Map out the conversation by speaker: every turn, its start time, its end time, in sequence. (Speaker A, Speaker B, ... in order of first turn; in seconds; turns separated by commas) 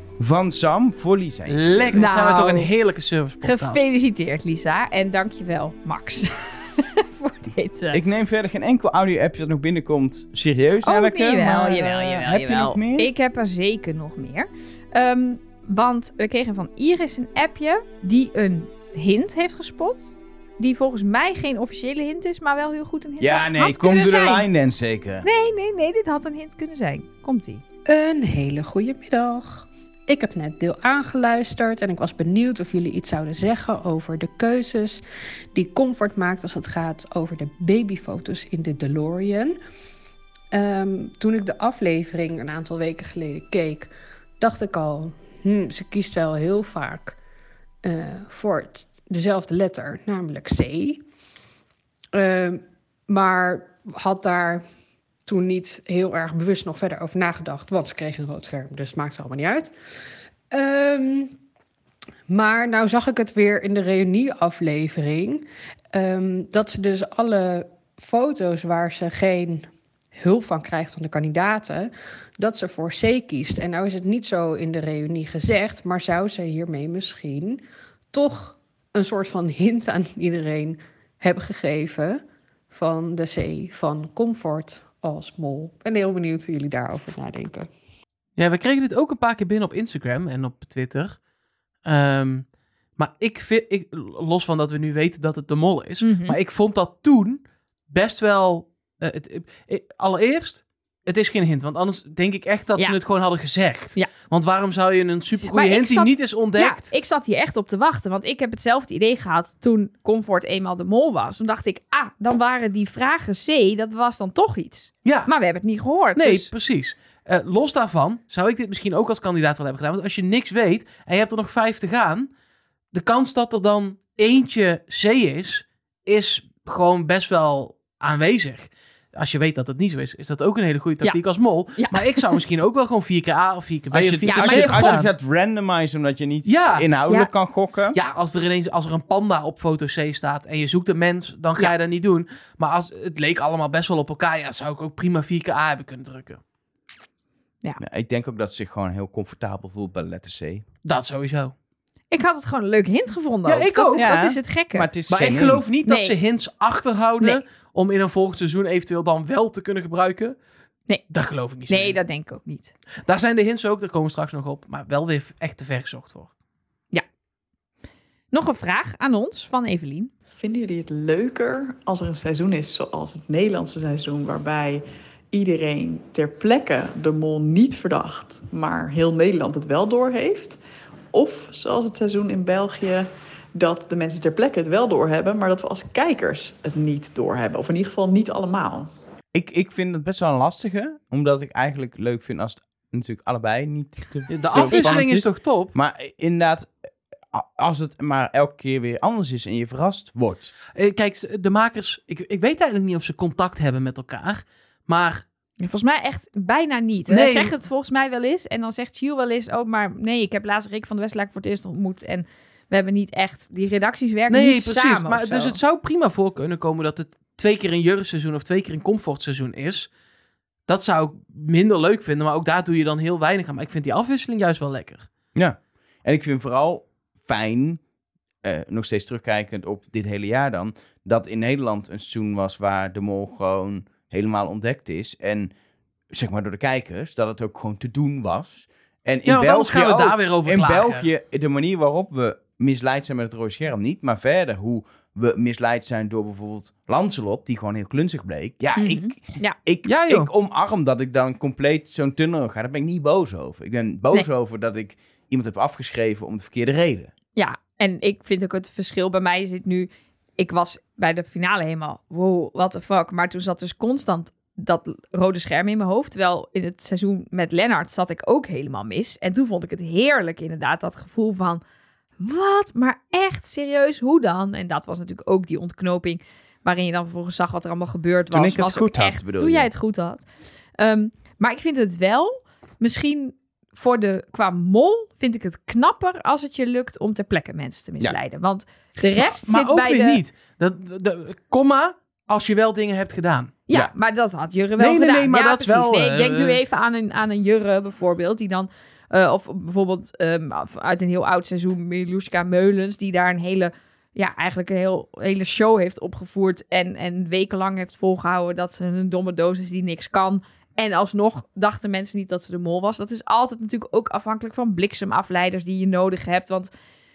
Speaker A: 0.2-2.3, Speaker B: 1.5-3.9, Speaker C: 1.9-2.7, Speaker C: 3.4-8.0, Speaker A: 7.9-13.1, Speaker C: 10.8-24.5, Speaker A: 23.2-25.3, Speaker C: 25.2-27.6, Speaker D: 27.9-35.0, Speaker D: 35.5-39.6, Speaker D: 40.5-47.2, Speaker D: 47.8-51.0, Speaker D: 52.1-54.6, Speaker D: 55.3-59.7, Speaker D: 60.5-61.4, Speaker D: 62.3-77.6, Speaker D: 78.1-87.7, Speaker B: 88.4-91.2, Speaker B: 91.8-106.9, Speaker C: 96.0-96.4, Speaker C: 105.5-116.5, Speaker B: 115.0-115.3, Speaker B: 116.2-122.3, Speaker B: 122.9-135.1, Speaker C: 131.8-132.4, Speaker A: 133.9-138.0, Speaker C: 134.3-135.1, Speaker B: 136.5-136.9, Speaker B: 137.9-146.4, Speaker A: 147.8-150.7, Speaker B: 150.8-151.5, Speaker C: 152.1-154.9, Speaker B: 153.5-154.1, Speaker A: 154.0-155.7, Speaker B: 155.1-160.4, Speaker C: 155.8-156.2, Speaker B: 161.1-162.0, Speaker C: 161.7-162.7, Speaker B: 163.1-166.3, Speaker C: 168.3-170.1, Speaker E: 170.3-180.6, Speaker E: 181.1-188.9, Speaker A: 189.3-196.7, Speaker B: 194.3-195.7, Speaker A: 197.3-200.5, Speaker B: 200.8-205.2, Speaker C: 205.6-215.6, Speaker B: 207.1-207.5, Speaker B: 214.3-219.9, Speaker B: 220.7-225.1, Speaker A: 225.3-227.8, Speaker A: 228.4-235.5, Speaker A: 236.1-257.1, Speaker B: 239.3-241.1, Speaker C: 248.8-249.6, Speaker B: 249.8-250.3, Speaker C: 257.4-271.6, Speaker C: 272.2-280.2, Speaker A: 278.3-279.7, Speaker C: 280.8-290.2, Speaker B: 289.1-293.6, Speaker C: 293.7-316.7, Speaker B: 294.8-296.6